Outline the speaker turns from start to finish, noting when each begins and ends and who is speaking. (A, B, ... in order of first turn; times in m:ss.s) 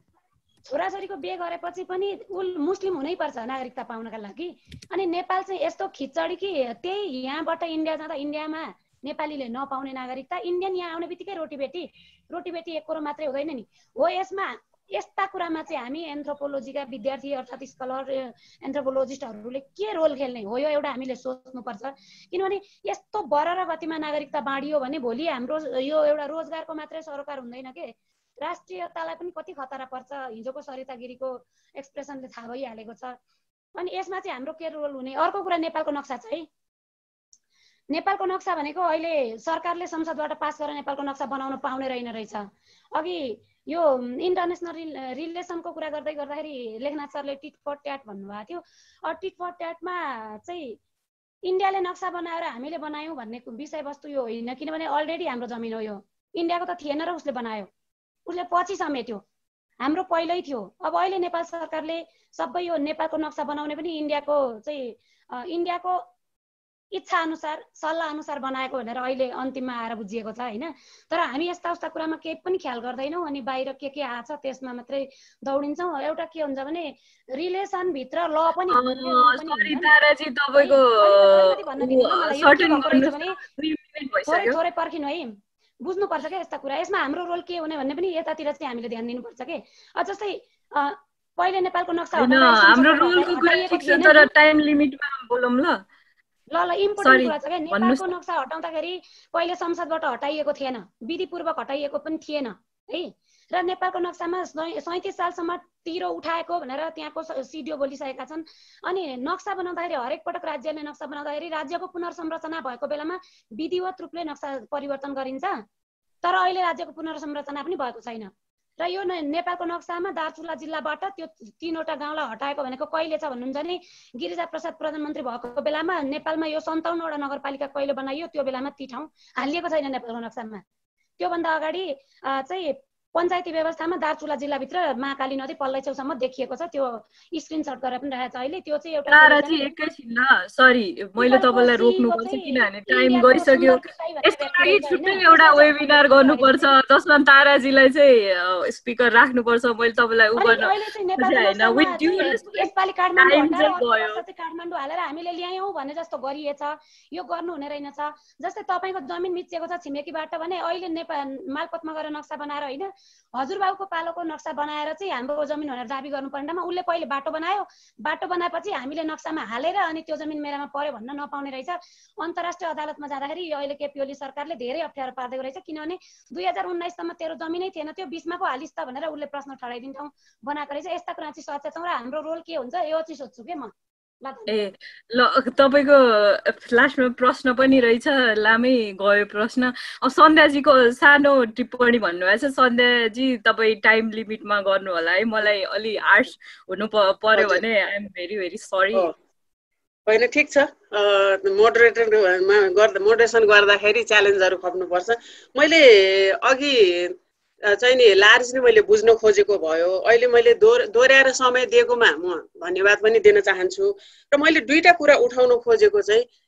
0:00.6-0:33.2 A
0:33.8-0:36.5 A
0:37.9-0:50.8 A
0:51.5-0:57.7 A
0:58.3-0:59.2 A
0:59.8-1:06.0 A
1:06.9-1:19.9 A
1:18.7-1:24.6 B
1:20.5-1:23.4 A
1:24.3-1:34.3 A
1:32.2-1:35.8 B
1:36.5-1:55.5 A
1:37.0-1:38.1 B
1:56.2-2:10.6 A
2:11.2-2:19.8 A
2:19.1-2:34.2 B
2:21.2-2:26.8 A
2:30.4-3:03.7 A
3:04.2-3:04.7 A
3:04.5-3:19.1 B
3:17.4-3:17.6 C
3:20.1-3:27.2 C
3:27.7-3:36.2 C